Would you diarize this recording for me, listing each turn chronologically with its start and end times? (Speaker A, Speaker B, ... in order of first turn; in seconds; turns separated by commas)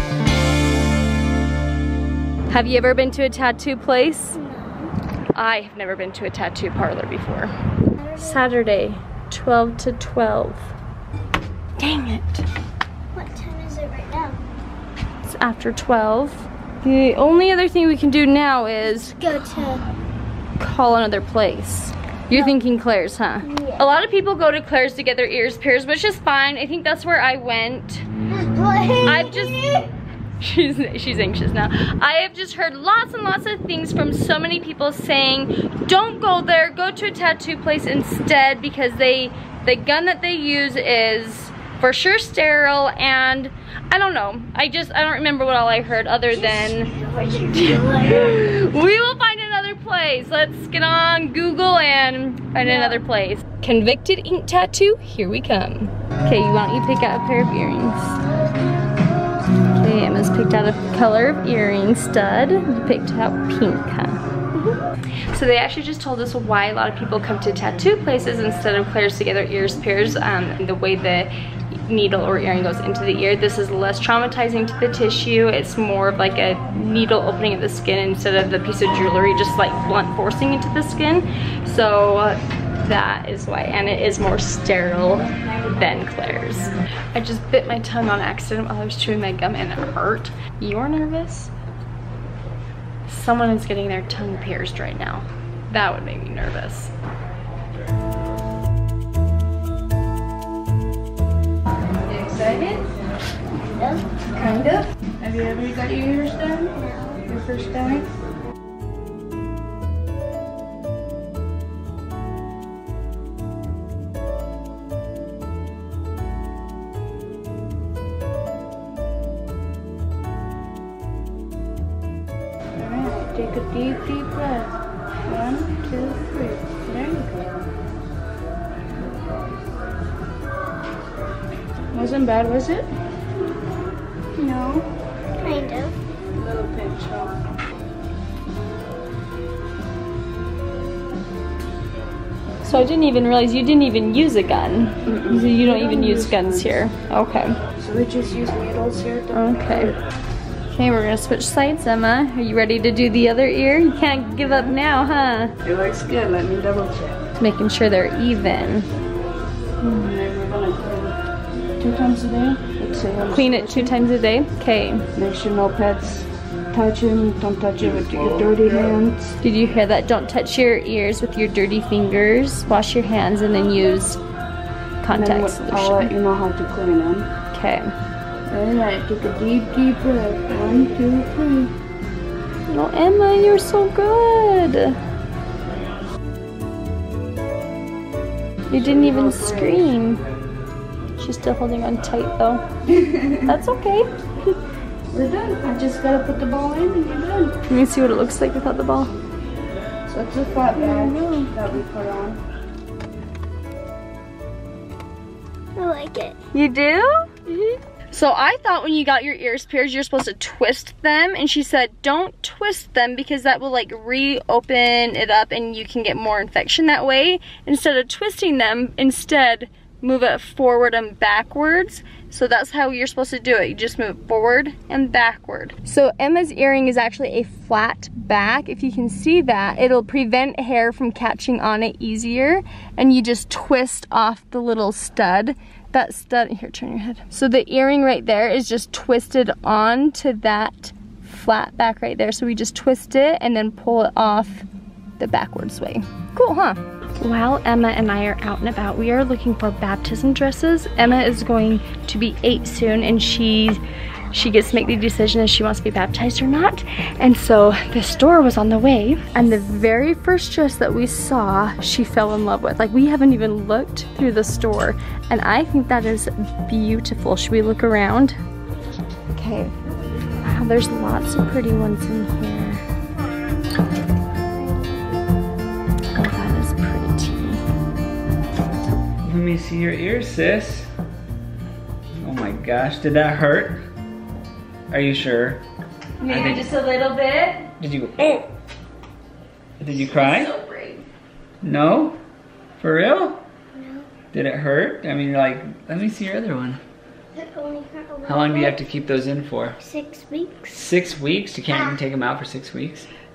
Speaker A: 2.5-4.4, Speaker B: 4.3-4.9, Speaker A: 5.3-7.5, Speaker B: 8.0-8.5, Speaker A: 8.2-10.7, Speaker A: 11.8-12.4, Speaker B: 13.1-14.4, Speaker A: 15.2-19.2, Speaker B: 19.0-19.8, Speaker A: 20.6-28.1, Speaker B: 23.4-23.9, Speaker B: 28.3-29.9, Speaker A: 29.1-29.8, Speaker A: 30.4-46.9, Speaker B: 46.3-48.5, Speaker A: 47.5-58.1, Speaker B: 52.6-53.0, Speaker A: 59.7-64.2, Speaker A: 65.3-71.3, Speaker A: 71.9-91.5, Speaker A: 93.1-96.9, Speaker C: 102.1-102.9, Speaker B: 103.7-104.0, Speaker C: 104.4-104.7, Speaker A: 104.4-104.8, Speaker C: 105.2-106.7, Speaker B: 106.7-107.2, Speaker C: 107.2-108.1, Speaker C: 122.8-124.7, Speaker C: 125.3-127.7, Speaker C: 131.9-132.9, Speaker C: 134.4-134.9, Speaker B: 135.4-135.9, Speaker C: 136.3-137.4, Speaker A: 142.6-147.6, Speaker C: 145.1-146.8, Speaker C: 147.8-149.9, Speaker A: 149.3-149.9, Speaker A: 150.7-155.5, Speaker C: 155.6-157.2, Speaker A: 157.4-158.9, Speaker C: 159.8-161.2, Speaker C: 161.8-163.9, Speaker A: 163.3-165.1, Speaker C: 165.2-169.3, Speaker A: 169.4-174.2, Speaker A: 175.0-176.2, Speaker C: 175.1-177.3, Speaker A: 177.5-177.9, Speaker C: 178.5-181.7, Speaker A: 182.7-185.0, Speaker A: 188.7-190.2, Speaker C: 188.9-189.9, Speaker A: 191.2-192.6, Speaker C: 192.9-193.4, Speaker A: 193.5-194.5, Speaker C: 195.1-197.5, Speaker A: 197.7-199.1, Speaker C: 200.1-202.4, Speaker A: 200.8-201.7, Speaker B: 205.8-206.4, Speaker A: 206.5-244.7, Speaker A: 245.2-268.4, Speaker A: 269.4-269.7, Speaker A: 270.4-272.8, Speaker A: 276.1-277.6, Speaker D: 279.2-280.9, Speaker D: 282.2-283.8, Speaker D: 284.9-285.6, Speaker A: 286.2-287.7, Speaker D: 286.3-286.7, Speaker D: 287.8-288.4, Speaker D: 289.8-290.5, Speaker A: 289.9-291.1, Speaker D: 291.6-292.2, Speaker D: 292.8-293.4, Speaker B: 293.7-294.1, Speaker D: 294.3-296.8, Speaker B: 297.3-298.8, Speaker D: 298.2-299.8, Speaker B: 299.8-300.9, Speaker D: 300.7-303.1, Speaker B: 301.7-302.0